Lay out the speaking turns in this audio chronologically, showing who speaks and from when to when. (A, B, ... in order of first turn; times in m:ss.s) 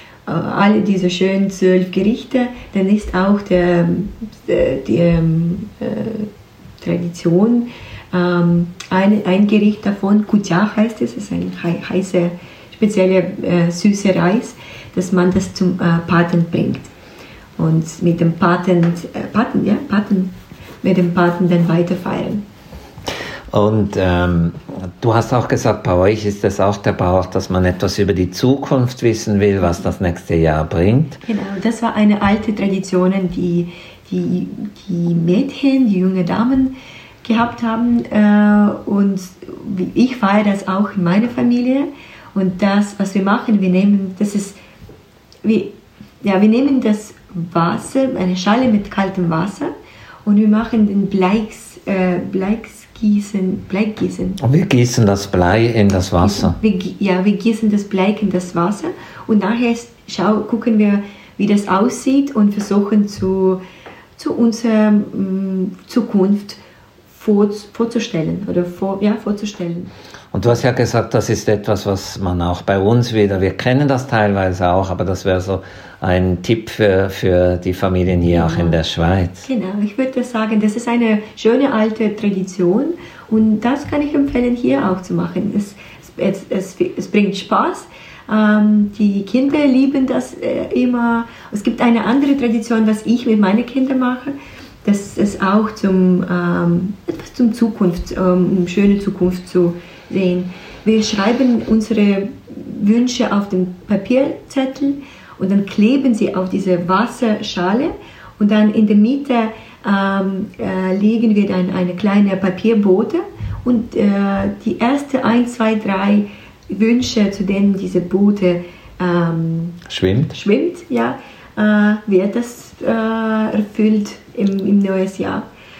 0:00.2-0:06.3 A
0:06.8-0:16.9 A
0:17.6-0:22.4 A
0:23.5-0:31.2 B
0:31.2-0:44.6 A
0:45.4-0:49.7 A
0:50.2-0:54.4 A
0:54.4-0:56.6 B
0:56.2-1:03.6 A
1:04.2-1:06.6 A
1:07.1-1:09.9 A
1:10.3-1:19.5 B
1:18.4-1:18.8 A
1:19.4-1:59.8 A
1:59.9-2:00.3 B
2:00.3-2:05.4 A